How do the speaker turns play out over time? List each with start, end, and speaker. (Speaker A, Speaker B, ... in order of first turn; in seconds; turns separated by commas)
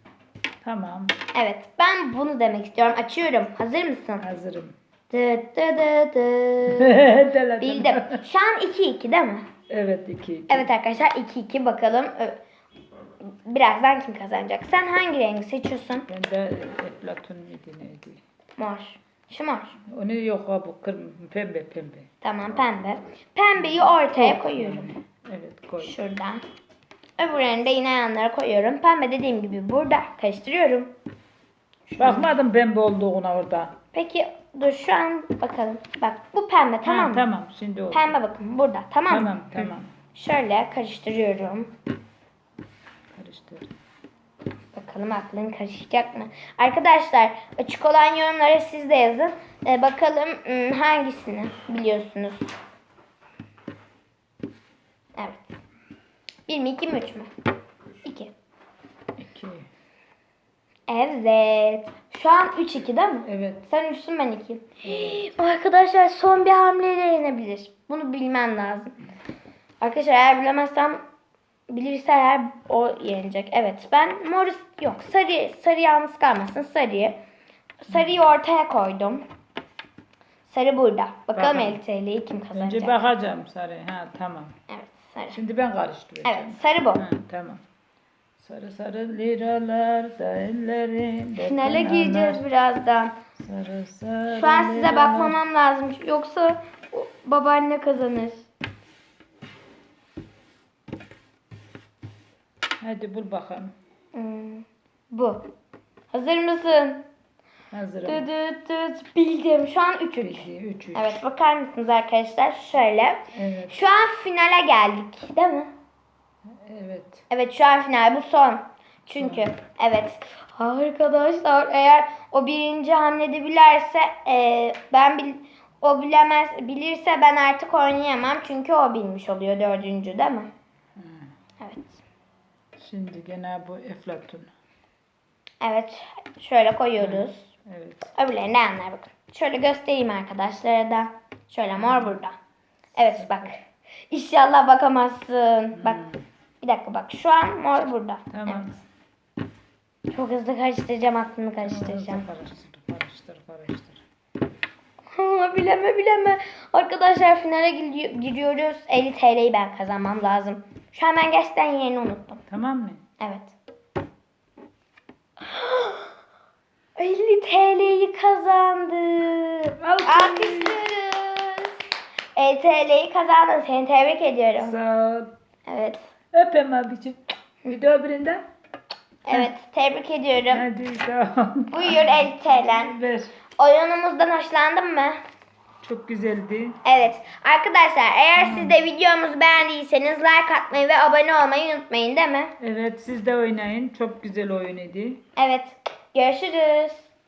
Speaker A: 0.6-1.1, Speaker B: 1.3-4.2, Speaker A: 4.2-4.8, Speaker B: 5.1-7.0, Speaker A: 6.7-8.2, Speaker B: 7.6-9.4, Speaker A: 9.7-10.7, Speaker B: 10.5-12.4, Speaker B: 13.2-16.1, Speaker A: 16.1-18.2, Speaker B: 18.6-19.8, Speaker A: 19.9-22.1, Speaker B: 22.2-24.9, Speaker A: 23.6-26.0, Speaker B: 25.8-26.4, Speaker B: 27.2-30.9, Speaker B: 31.9-32.3, Speaker A: 32.0-33.8, Speaker B: 33.9-37.3, Speaker A: 36.8-38.2, Speaker B: 37.9-41.7, Speaker A: 39.1-39.9, Speaker A: 43.1-43.7, Speaker B: 44.7-52.5, Speaker B: 55.1-55.5, Speaker B: 56.5-57.3, Speaker B: 58.0-58.3, Speaker A: 59.2-59.7, Speaker B: 60.9-69.0, Speaker A: 63.3-63.6, Speaker A: 64.8-65.3, Speaker B: 69.8-71.0, Speaker B: 71.7-77.2, Speaker B: 77.8-79.2, Speaker A: 77.9-78.2, Speaker B: 80.4-83.0, Speaker A: 81.3-81.8, Speaker A: 82.5-84.5, Speaker B: 84.7-85.4, Speaker A: 85.3-87.6, Speaker B: 86.2-87.0, Speaker A: 88.4-92.4, Speaker B: 91.4-93.1, Speaker A: 93.3-95.4, Speaker B: 94.3-98.5, Speaker A: 102.8-103.7, Speaker B: 104.1-105.5, Speaker B: 106.1-107.0, Speaker A: 107.7-108.3, Speaker B: 108.0-115.7, Speaker A: 110.2-111.1, Speaker A: 113.3-113.8, Speaker A: 116.5-117.2, Speaker B: 117.3-130.5, Speaker A: 119.2-119.5, Speaker A: 130.9-131.3, Speaker B: 131.6-132.0, Speaker A: 132.8-134.5, Speaker B: 135.6-137.5, Speaker A: 137.0-138.1, Speaker B: 138.1-142.3, Speaker A: 141.8-142.2, Speaker B: 142.9-146.0, Speaker A: 143.0-143.5, Speaker A: 145.8-146.2, Speaker B: 146.6-148.6, Speaker A: 148.3-148.8, Speaker B: 150.1-152.2, Speaker A: 151.6-154.0, Speaker B: 155.1-162.4, Speaker A: 162.5-163.0, Speaker B: 163.2-163.5, Speaker B: 165.4-166.1, Speaker B: 167.0-171.8, Speaker A: 169.8-170.8, Speaker B: 172.3-174.7, Speaker A: 174.6-175.3, Speaker B: 175.7-176.1, Speaker A: 176.3-178.4, Speaker B: 179.3-180.6, Speaker A: 180.5-183.3, Speaker B: 181.7-182.9, Speaker B: 183.6-185.2, Speaker A: 185.8-186.9, Speaker B: 186.8-192.5, Speaker A: 188.4-188.8, Speaker A: 192.6-195.2, Speaker B: 195.4-197.1